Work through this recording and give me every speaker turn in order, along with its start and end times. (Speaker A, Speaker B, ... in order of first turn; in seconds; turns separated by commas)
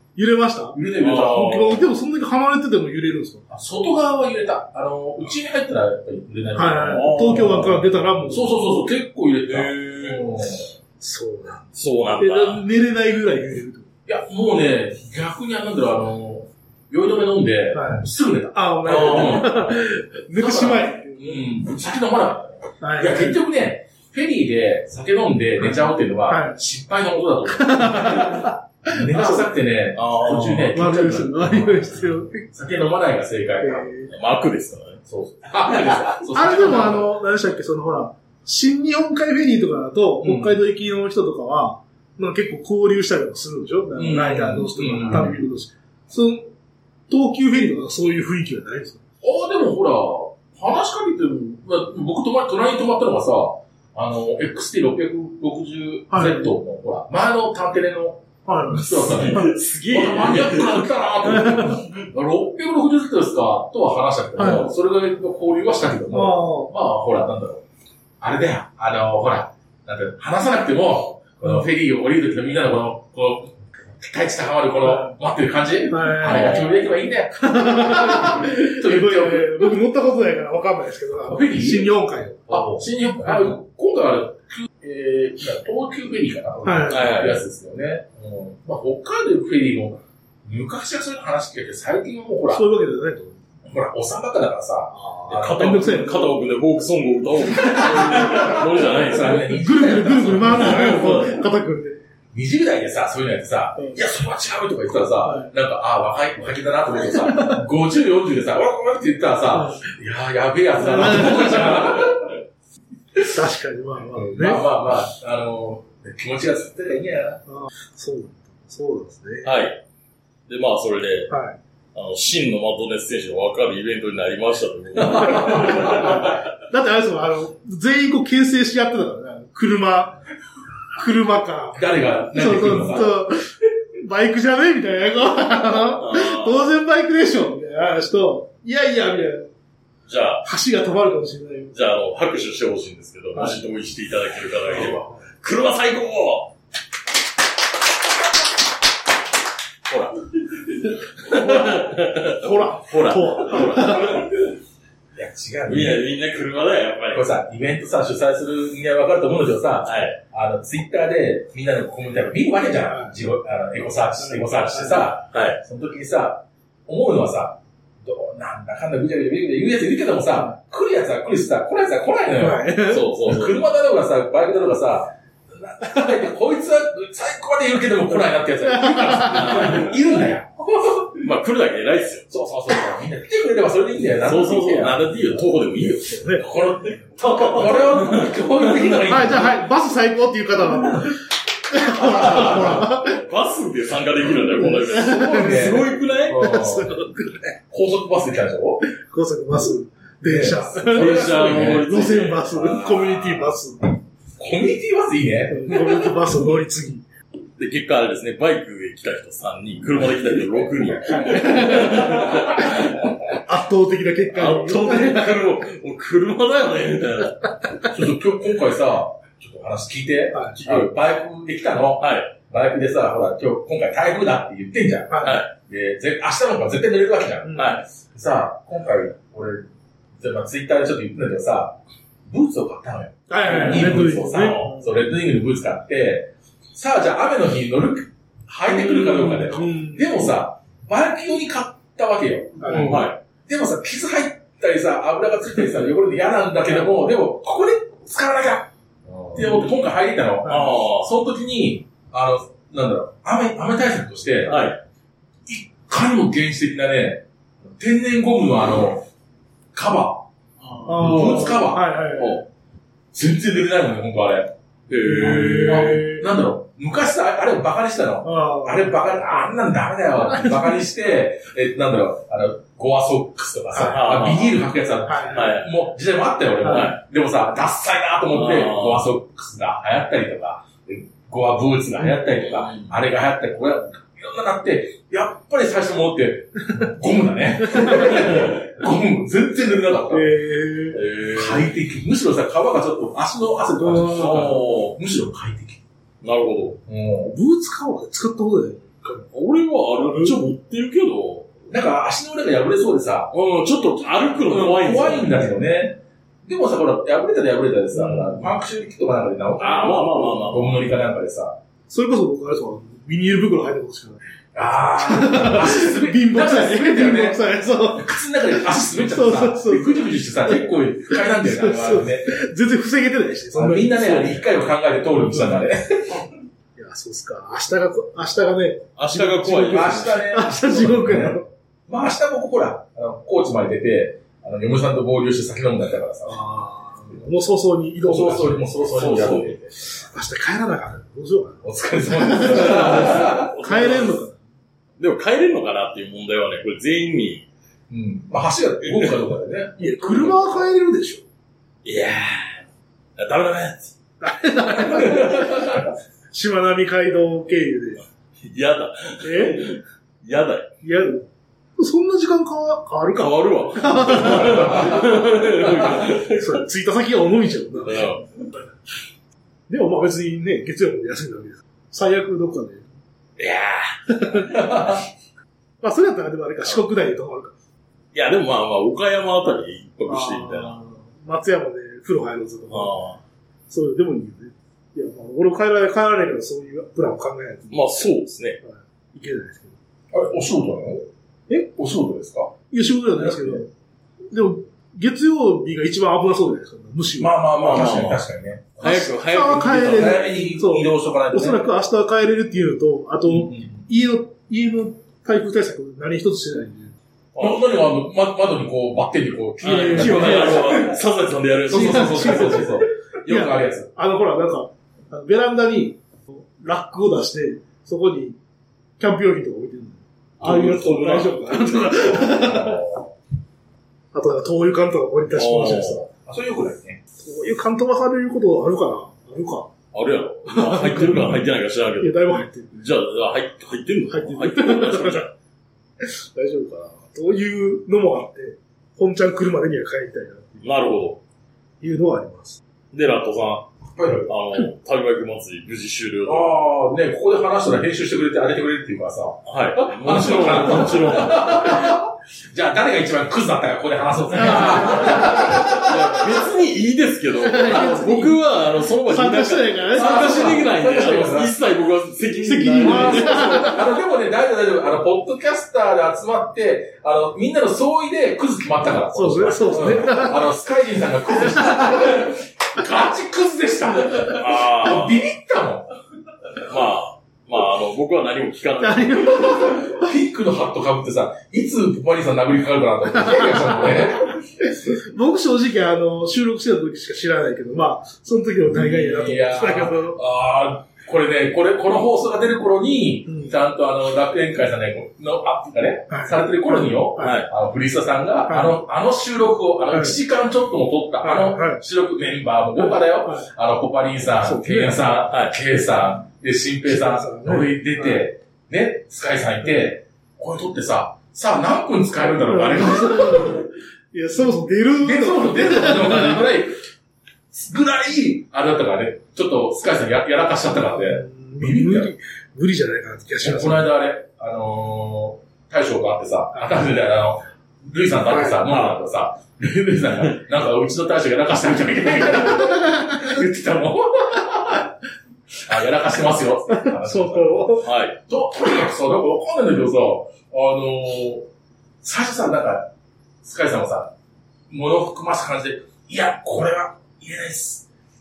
Speaker A: 0.1-3.4, Speaker B: 0.7-1.7, Speaker C: 0.9-1.8, Speaker B: 3.5-7.7, Speaker A: 6.5-8.6, Speaker C: 6.9-7.8, Speaker B: 8.3-10.7, Speaker C: 9.5-10.2, Speaker A: 11.0-13.9, Speaker C: 11.7-12.6, Speaker B: 14.1-19.7, Speaker A: 17.7-21.5, Speaker C: 18.9-19.5, Speaker B: 20.4-33.9, Speaker A: 22.8-23.4, Speaker A: 25.6-26.6, Speaker A: 27.5-29.5, Speaker C: 29.9-30.8, Speaker A: 30.3-32.5, Speaker A: 33.6-34.1, Speaker C: 34.1-35.0, Speaker B: 35.1-37.1, Speaker A: 36.3-46.5, Speaker B: 40.2-40.6, Speaker B: 44.0-45.4, Speaker A: 47.1-49.0, Speaker B: 49.2-67.6, Speaker A: 56.1-56.5, Speaker A: 58.5-59.5, Speaker C: 59.1-61.6, Speaker A: 61.3-61.8, Speaker A: 64.4-64.7, Speaker A: 66.1-66.7, Speaker B: 68.2-79.7, Speaker A: 74.8-75.1, Speaker A: 75.9-76.8, Speaker A: 77.4-83.5, Speaker B: 81.3-81.9, Speaker B: 82.5-92.7, Speaker A: 86.6-87.2, Speaker C: 86.9-87.4, Speaker A: 92.5-93.4, Speaker B: 93.7-95.9, Speaker A: 94.9-96.4, Speaker C: 95.3-99.5, Speaker B: 97.6-101.3, Speaker A: 97.7-98.6, Speaker A: 99.1-102.0, Speaker C: 100.5-101.3, Speaker B: 102.3-112.4, Speaker A: 105.2-105.5, Speaker A: 107.0-107.6, Speaker A: 109.5-109.9, Speaker A: 110.8-111.9, Speaker A: 113.3-114.6, Speaker B: 114.1-117.4, Speaker A: 117.5-119.5, Speaker C: 119.4-119.8, Speaker C: 120.5-121.3, Speaker A: 121.3-121.6, Speaker C: 121.9-126.3, Speaker B: 125.0-126.2, Speaker A: 125.2-130.2, Speaker A: 130.9-139.5, Speaker B: 131.7-133.2, Speaker C: 135.9-136.7, Speaker C: 140.1-140.4, Speaker A: 140.4-141.7, Speaker C: 141.7-146.5, Speaker A: 144.8-145.1, Speaker C: 149.8-150.2, Speaker C: 151.2-154.3, Speaker A: 151.2-154.3, Speaker B: 155.1-156.1, Speaker C: 155.7-157.3, Speaker B: 157.1-181.2, Speaker C: 159.8-160.2, Speaker A: 162.9-163.1, Speaker A: 164.4-165.0, Speaker C: 165.3-165.6, Speaker A: 172.4-173.1, Speaker C: 172.8-173.6, Speaker A: 178.6-179.9, Speaker C: 179.3-179.9, Speaker C: 181.2-182.2, Speaker B: 182.3-185.4, Speaker C: 184.2-189.2, Speaker A: 185.8-186.5, Speaker B: 186.4-189.6, Speaker A: 189.1-193.2, Speaker B: 191.8-192.9, Speaker C: 192.0-196.6, Speaker A: 194.5-197.6, Speaker B: 195.0-197.0, Speaker B: 197.7-198.8, Speaker A: 198.9-203.9, Speaker B: 200.2-201.9, Speaker C: 200.9-203.2, Speaker B: 204.4-206.0, Speaker A: 205.5-207.0, Speaker C: 207.6-213.1, Speaker A: 211.1-212.6, Speaker A: 213.4-215.5, Speaker C: 214.3-217.5, Speaker B: 217.9-229.7, Speaker A: 220.3-220.6, Speaker C: 220.6-220.9, Speaker C: 222.0-222.3, Speaker A: 225.1-225.4, Speaker C: 225.2-225.5, Speaker A: 227.4-227.8, Speaker C: 227.6-227.8, Speaker B: 230.2-231.8, Speaker B: 232.3-254.7, Speaker A: 233.3-234.8, Speaker C: 233.4-234.7, Speaker A: 238.7-240.2, Speaker A: 242.6-243.0, Speaker C: 242.7-243.2, Speaker C: 250.4-251.1, Speaker C: 254.4-254.8, Speaker B: 255.5-259.0, Speaker B: 259.7-260.2, Speaker C: 260.8-261.4, Speaker A: 260.8-262.4, Speaker B: 260.9-261.9, Speaker B: 263.1-264.5, Speaker C: 264.9-266.0, Speaker A: 265.0-266.2, Speaker B: 265.3-290.4, Speaker A: 268.2-269.5, Speaker A: 270.2-270.8, Speaker A: 273.7-274.0, Speaker C: 273.8-274.6, Speaker A: 275.1-275.6, Speaker C: 275.3-275.7, Speaker C: 276.6-276.9, Speaker C: 278.3-279.1, Speaker C: 282.4-282.9, Speaker A: 287.6-288.5, Speaker A: 290.1-291.0, Speaker C: 290.9-291.7, Speaker B: 291.2-295.8, Speaker A: 293.8-294.5, Speaker C: 293.9-295.0, Speaker C: 296.2-296.8, Speaker B: 296.9-297.3, Speaker A: 297.2-299.2, Speaker C: 299.3-301.5, Speaker A: 300.0-300.4, Speaker B: 301.7-303.3, Speaker C: 303.3-305.5, Speaker B: 304.4-311.6, Speaker A: 308.0-308.3, Speaker C: 309.6-310.9, Speaker A: 311.9-314.2, Speaker B: 314.5-322.4, Speaker A: 314.9-318.1, Speaker A: 318.7-324.4, Speaker B: 323.5-326.3, Speaker A: 326.8-331.4, Speaker C: 329.0-330.3, Speaker B: 329.6-336.4, Speaker A: 336.3-338.8, Speaker B: 338.0-340.1, Speaker C: 338.9-339.6, Speaker A: 340.0-344.4, Speaker B: 341.6-343.5, Speaker C: 342.4-344.2, Speaker C: 345.0-347.4, Speaker B: 347.9-350.6, Speaker C: 348.8-349.2, Speaker A: 349.8-351.2, Speaker C: 351.8-352.6, Speaker C: 353.2-353.9, Speaker A: 354.2-358.0, Speaker C: 355.0-355.5, Speaker C: 358.4-360.7, Speaker A: 359.2-359.8, Speaker A: 360.8-365.1, Speaker C: 363.1-366.6, Speaker B: 364.4-365.0, Speaker A: 365.8-368.2, Speaker C: 367.8-368.2, Speaker A: 369.7-372.9, Speaker C: 373.4-374.1, Speaker A: 374.1-374.6, Speaker B: 374.4-375.0, Speaker A: 375.8-377.5, Speaker C: 378.1-380.8, Speaker A: 380.1-383.0, Speaker C: 382.7-383.2, Speaker A: 383.7-387.9, Speaker C: 387.7-388.6, Speaker A: 388.6-389.8, Speaker B: 390.1-391.1, Speaker B: 391.8-392.5, Speaker A: 392.7-393.7, Speaker B: 393.2-393.6, Speaker A: 394.3-397.5, Speaker B: 397.2-399.1, Speaker C: 397.5-398.2, Speaker C: 398.8-400.3, Speaker A: 398.8-406.9, Speaker B: 399.6-401.7, Speaker B: 403.3-403.8, Speaker C: 407.3-407.6, Speaker B: 407.4-411.0, Speaker C: 409.6-412.8, Speaker A: 409.6-410.9, Speaker B: 411.7-413.9, Speaker A: 411.7-418.4, Speaker A: 419.0-422.8, Speaker C: 420.4-422.2, Speaker B: 422.0-423.1, Speaker A: 424.1-426.1, Speaker C: 425.3-426.0, Speaker B: 426.1-427.0, Speaker A: 427.2-429.7, Speaker C: 429.9-435.3, Speaker A: 430.5-431.4, Speaker A: 432.0-432.8, Speaker A: 434.1-435.2, Speaker A: 436.0-440.7, Speaker C: 440.6-441.2, Speaker A: 441.8-442.6, Speaker C: 442.9-443.7, Speaker B: 443.9-444.3, Speaker C: 444.2-446.5, Speaker B: 446.2-456.3, Speaker C: 449.4-451.9, Speaker C: 454.4-463.7, Speaker A: 454.5-455.1, Speaker A: 457.4-458.5, Speaker A: 459.0-460.6, Speaker B: 459.9-461.6, Speaker A: 462.4-463.8, Speaker B: 462.8-475.9, Speaker A: 469.1-470.4, Speaker A: 471.6-471.9, Speaker C: 474.3-475.2, Speaker C: 476.6-479.7, Speaker A: 478.8-480.0, Speaker B: 479.4-484.4, Speaker A: 483.3-490.2, Speaker B: 488.7-513.6, Speaker A: 493.3-493.6, Speaker A: 496.1-497.4, Speaker C: 497.2-497.5, Speaker A: 498.5-498.8, Speaker A: 501.2-501.8, Speaker A: 502.8-503.5, Speaker A: 504.4-505.1, Speaker A: 506.9-508.2, Speaker A: 512.2-516.5, Speaker B: 515.0-516.7, Speaker B: 517.5-522.1, Speaker A: 520.9-523.9, Speaker B: 523.4-534.9, Speaker A: 528.3-528.6, Speaker A: 532.3-533.3, Speaker B: 535.6-541.5, Speaker A: 536.7-537.9, Speaker C: 537.8-538.1, Speaker B: 542.0-542.9, Speaker B: 543.4-544.1, Speaker B: 544.7-547.9